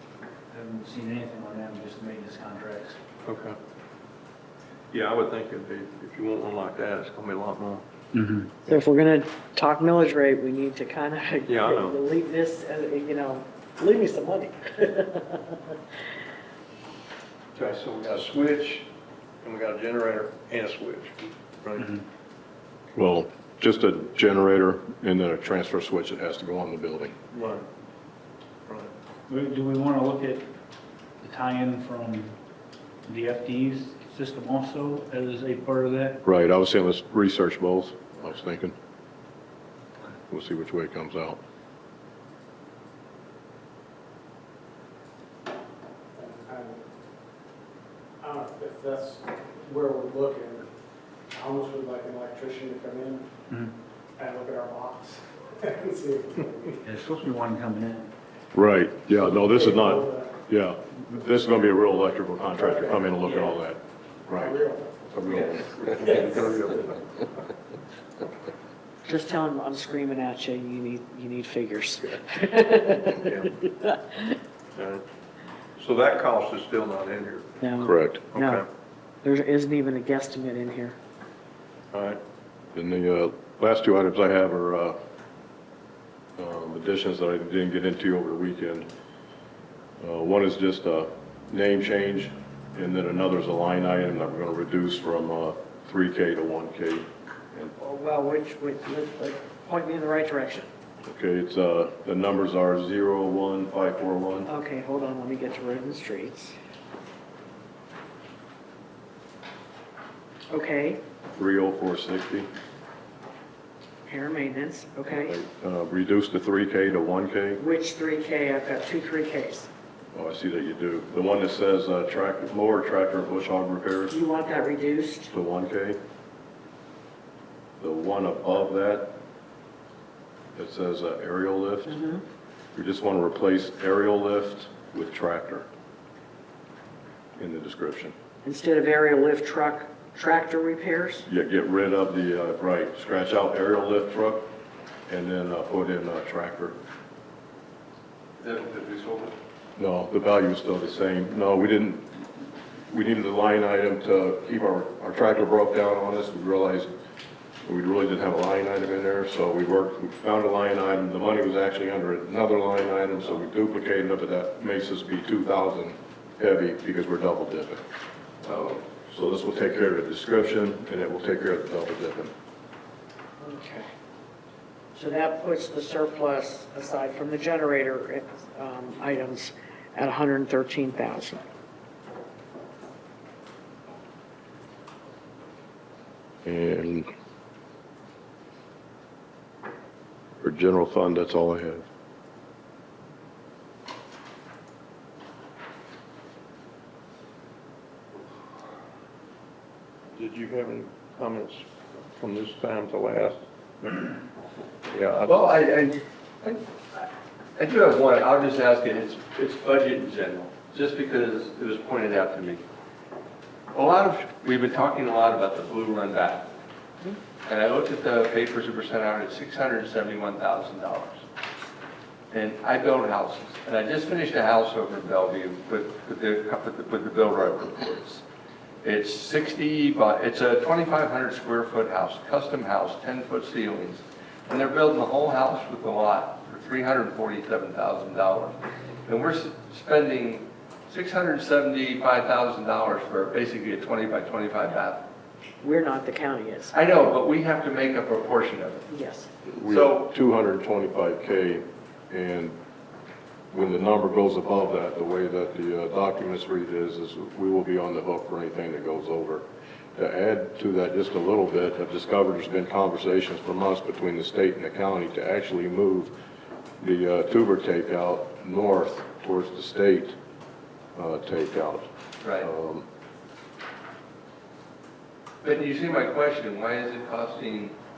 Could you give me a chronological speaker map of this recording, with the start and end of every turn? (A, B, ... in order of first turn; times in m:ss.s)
0:00.5-0:03.0 A
0:03.3-0:03.6 B
0:04.9-0:07.8 B
0:08.1-0:08.5 A
0:08.7-0:15.8 C
0:11.5-0:12.0 B
0:17.6-0:18.9 B
0:19.4-0:21.9 B
0:23.0-0:27.2 D
0:27.3-0:27.6 B
0:29.3-0:30.5 A
0:31.2-0:32.4 A
0:33.1-0:36.2 A
0:36.2-0:38.8 D
0:40.3-0:41.4 D
0:46.2-0:46.8 E
0:48.2-0:50.7 E
0:51.3-0:53.3 E
0:54.2-0:56.8 E
0:56.8-0:58.1 A
0:58.5-1:05.9 D
0:59.2-1:00.4 E
1:02.6-1:03.4 E
1:04.3-1:05.5 E
1:05.8-1:06.9 B
1:06.1-1:06.4 E
1:09.0-1:14.2 C
1:13.2-1:13.6 B
1:14.8-1:15.0 B
1:15.8-1:17.5 B
1:17.6-1:18.6 C
1:17.8-1:18.2 D
1:18.3-1:18.7 B
1:19.2-1:21.0 C
1:21.9-1:22.2 B
1:22.8-1:25.0 D
1:26.4-1:28.9 D
1:30.0-1:37.7 D
1:37.8-1:40.7 C
1:41.0-1:44.5 D
1:44.5-1:46.6 C
1:50.5-1:51.0 C
1:51.4-1:52.5 D
1:54.1-1:55.4 C
1:55.2-1:57.6 D
1:57.6-1:59.7 C
2:00.1-2:04.2 D
2:04.1-2:05.3 C
2:05.3-2:06.0 D
2:07.8-2:09.2 D
2:10.6-2:12.0 D
2:11.9-2:12.2 C
2:12.8-2:15.7 D
2:17.4-2:18.1 D
2:18.4-2:21.3 C
2:21.3-2:24.5 D
2:25.1-2:26.8 D
2:28.4-2:29.4 F
2:29.8-2:32.3 D
2:32.9-2:36.9 D
2:37.6-2:47.8 D
2:48.4-2:48.8 F
2:48.9-2:52.3 D
2:53.4-2:53.9 C
2:54.9-3:01.4 C
3:06.4-3:07.1 D
3:10.4-3:11.9 D
3:20.2-3:24.1 B
3:24.9-3:25.4 B
3:25.2-3:32.6 F
3:33.7-3:36.5 F
3:37.5-3:41.2 F
3:42.3-3:48.2 F
3:48.8-4:05.0 F
4:05.6-4:06.7 C
4:06.7-4:08.9 F
4:08.9-4:09.3 C
4:09.5-4:12.6 D
4:09.7-4:10.1 F
4:13.5-4:26.1 D
4:26.8-4:30.2 D
4:31.0-4:31.9 D
4:32.2-4:32.5 F
4:32.4-4:32.9 D
4:35.4-4:37.7 F